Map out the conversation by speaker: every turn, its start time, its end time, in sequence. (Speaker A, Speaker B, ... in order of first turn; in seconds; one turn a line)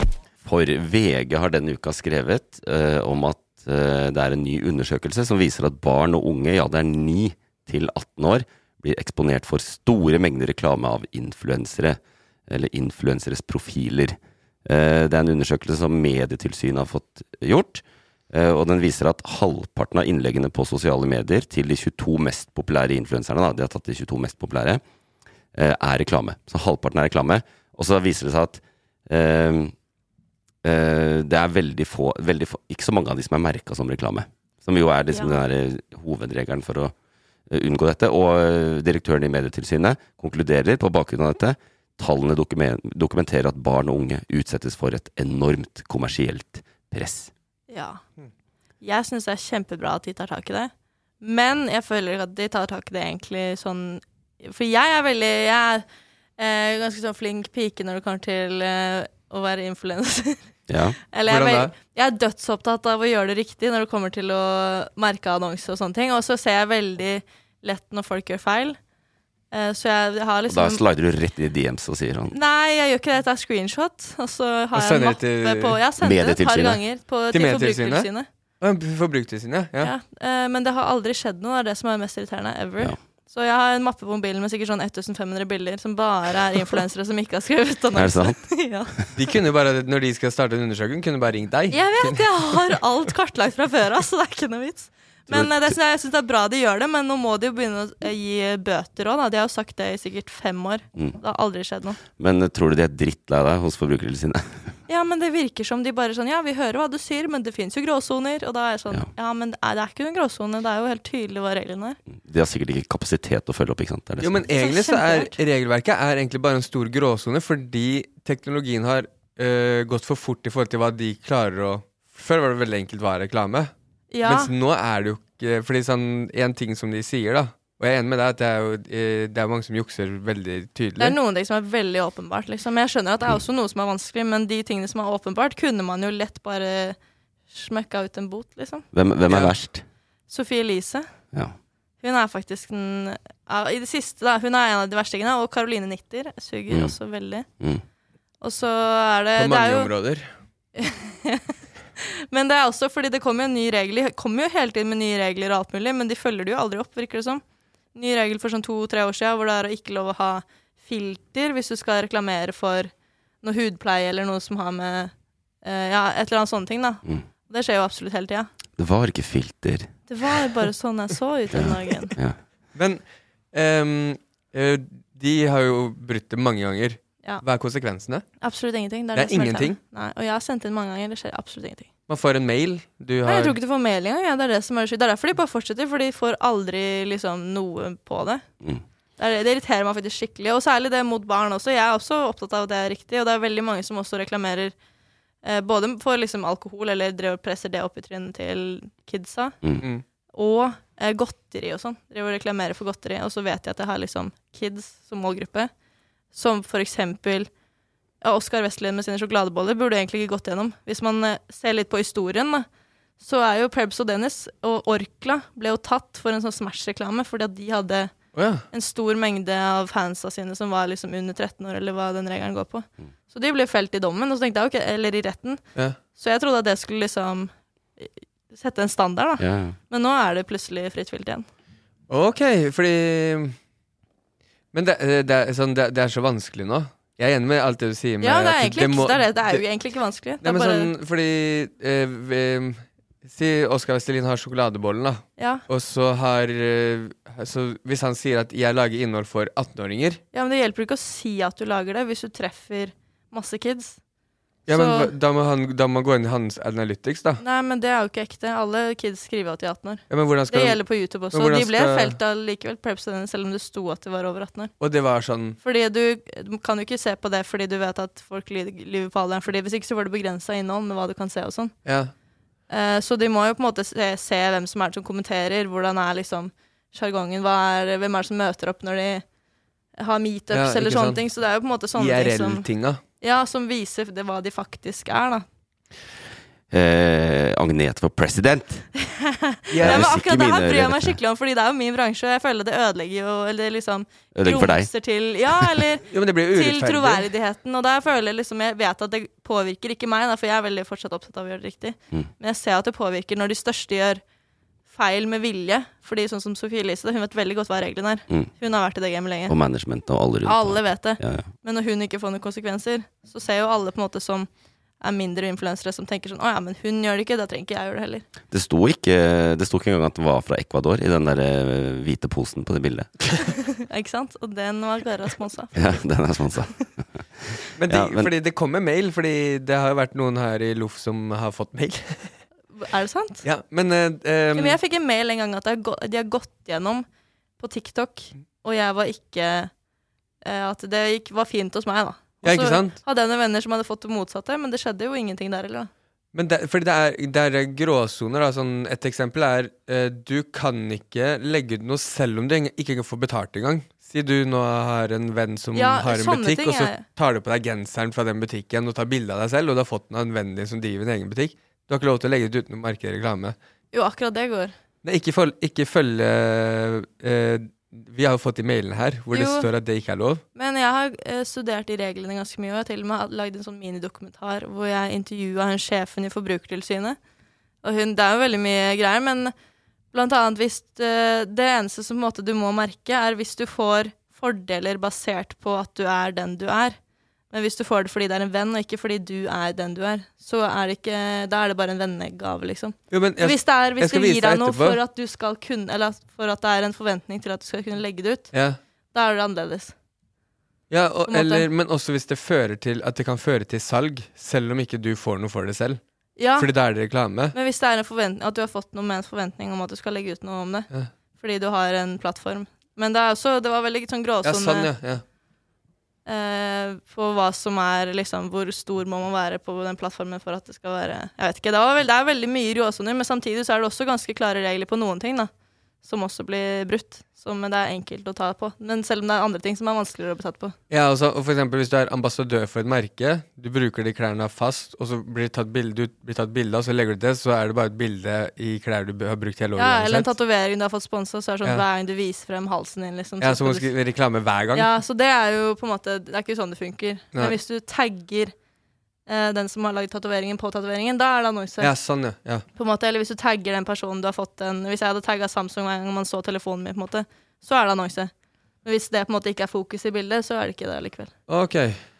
Speaker A: 0.4-24.8
Speaker A: 25.5-29.7
Speaker A: 30.6-36.9
Speaker B: 35.1-35.4
Speaker A: 37.5-47.3
Speaker B: 47.7-48.0
Speaker B: 48.8-55.9
Speaker B: 56.4-60.5
Speaker A: 60.7-61.0
Speaker B: 61.1-68.8
Speaker C: 61.2-61.7
Speaker B: 69.5-70.8
Speaker A: 70.5-72.3
Speaker B: 72.3-78.3
Speaker C: 74.7-75.8
Speaker A: 76.0-76.8
Speaker C: 77.3-78.1
Speaker C: 78.6-79.9
Speaker B: 79.8-88.9
Speaker A: 87.9-88.4
Speaker C: 89.1-92.2
Speaker B: 91.7-102.0
Speaker A: 95.3-95.7
Speaker A: 102.2-104.7
Speaker B: 104.9-112.0
Speaker A: 112.1-114.4
Speaker C: 114.2-123.7
Speaker B: 114.5-115.4
Speaker B: 124.1-124.5
Speaker C: 124.2-131.2
Speaker B: 131.0-137.0
Speaker B: 137.5-138.8
Speaker A: 138.9-139.8
Speaker C: 139.3-139.5
Speaker B: 140.3-141.1
Speaker B: 142.0-147.4
Speaker B: 148.4-149.9
Speaker C: 149.4-150.3
Speaker B: 150.8-157.4
Speaker B: 157.9-162.9
Speaker B: 163.4-168.5
Speaker A: 168.8-169.9
Speaker B: 170.1-172.1
Speaker A: 171.5-172.4
Speaker C: 172.7-173.0
Speaker C: 173.5-178.2
Speaker B: 178.4-181.9
Speaker C: 179.1-179.8
Speaker C: 182.1-183.6
Speaker B: 183.2-188.4
Speaker B: 189.2-194.7
Speaker B: 195.4-199.6
Speaker B: 200.3-205.7
Speaker B: 206.3-207.5
Speaker B: 208.2-212.7
Speaker B: 213.2-218.1
Speaker C: 218.3-218.6
Speaker B: 218.7-225.6
Speaker B: 226.1-231.4
Speaker A: 229.4-229.8
Speaker C: 232.1-233.5
Speaker C: 234.7-239.6
Speaker B: 238.2-240.9
Speaker C: 240.4-250.2
Speaker B: 245.4-245.6
Speaker B: 250.3-254.0
Speaker C: 254.7-257.4
Speaker B: 254.7-255.1
Speaker B: 257.4-264.7
Speaker C: 260.1-260.8
Speaker C: 261.3-262.1
Speaker C: 264.8-265.6
Speaker B: 265.6-271.7
Speaker C: 271.8-272.1
Speaker B: 272.7-279.2
Speaker B: 280.0-282.6
Speaker C: 280.5-281.2
Speaker C: 281.9-283.0
Speaker B: 283.2-285.4
Speaker A: 286.7-288.9
Speaker B: 289.0-304.2
Speaker C: 289.7-290.1
Speaker A: 289.8-291.2
Speaker A: 294.3-294.9
Speaker C: 296.1-297.3
Speaker B: 304.9-309.5
Speaker A: 309.5-311.5
Speaker B: 310.4-314.5
Speaker B: 315.0-318.3
Speaker A: 318.5-323.1
Speaker B: 323.8-325.8
Speaker A: 325.7-327.2
Speaker C: 327.8-332.3
Speaker A: 327.9-328.3
Speaker B: 332.7-333.4
Speaker C: 333.4-334.8
Speaker B: 334.6-337.1
Speaker B: 337.6-339.7
Speaker B: 340.4-345.9
Speaker C: 342.4-343.0
Speaker C: 346.3-363.5
Speaker B: 355.7-357.0
Speaker B: 363.9-364.7
Speaker C: 365.0-370.4
Speaker B: 369.3-369.7
Speaker B: 370.5-377.2
Speaker B: 377.8-379.5
Speaker B: 380.1-387.0
Speaker B: 387.5-398.5
Speaker C: 393.1-395.0
Speaker C: 398.5-398.8
Speaker B: 399.1-399.9
Speaker C: 400.9-406.0
Speaker B: 401.3-401.7
Speaker B: 406.4-406.7
Speaker C: 406.6-407.5
Speaker B: 407.5-414.9
Speaker C: 414.4-415.2
Speaker B: 416.2-425.5
Speaker B: 426.0-430.7
Speaker C: 430.9-440.3
Speaker B: 439.8-443.9
Speaker C: 443.4-444.9
Speaker B: 444.7-448.5
Speaker B: 449.3-451.9
Speaker C: 451.8-452.6
Speaker B: 452.7-458.3
Speaker B: 458.8-461.3
Speaker C: 461.5-462.0